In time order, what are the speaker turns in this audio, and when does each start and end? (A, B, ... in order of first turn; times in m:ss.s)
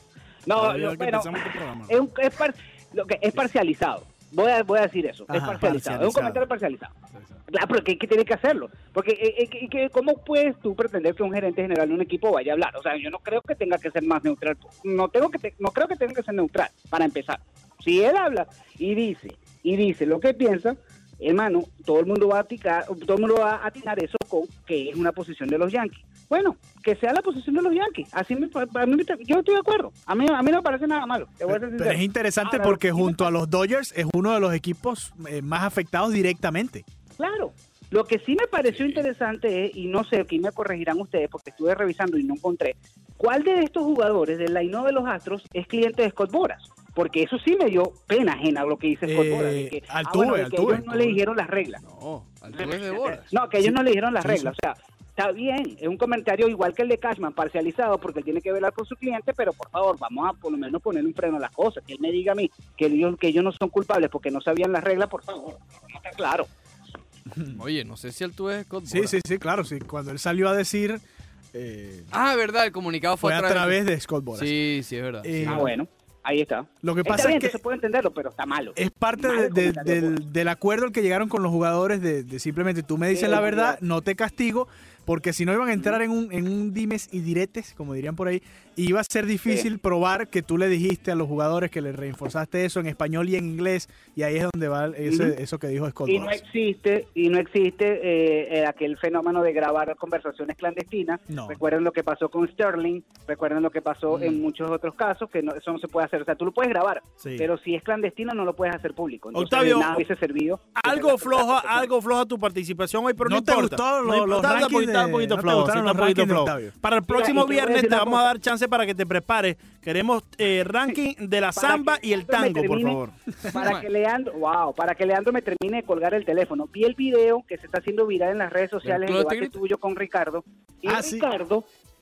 0:00.4-0:06.9 A
0:00.5-0:02.0 B
0:05.3-0:06.1 C
0:05.6-0:06.4 B
0:07.5-0:33.3 A
0:31.5-0:36.8 C
0:37.2-0:51.8 A
0:38.7-0:39.0 D
0:49.0-0:51.2 C
0:51.8-0:53.3 D
0:52.5-1:06.5 A
0:53.6-0:54.5 C
1:07.5-1:09.2 D
1:08.9-1:11.0 C
1:11.5-1:12.1 C
1:12.1-1:13.8 D
1:13.2-1:14.6 C
1:14.3-1:15.7 D
1:15.2-1:15.7 C
1:15.4-1:20.2 A
1:16.8-1:17.6 C
1:18.8-1:36.4 C
1:23.1-1:23.8 A
1:35.1-1:35.3 A
1:36.1-1:51.9 A
1:41.3-1:41.6 C
1:44.1-1:44.4 D
1:47.2-1:47.5 B
1:49.3-1:50.0 B
1:50.8-2:03.1 B
1:53.2-1:56.7 C
1:57.1-1:58.3 A
2:01.6-2:11.6 A
2:03.5-2:03.8 D
2:08.8-2:09.6 D
2:10.8-2:11.2 C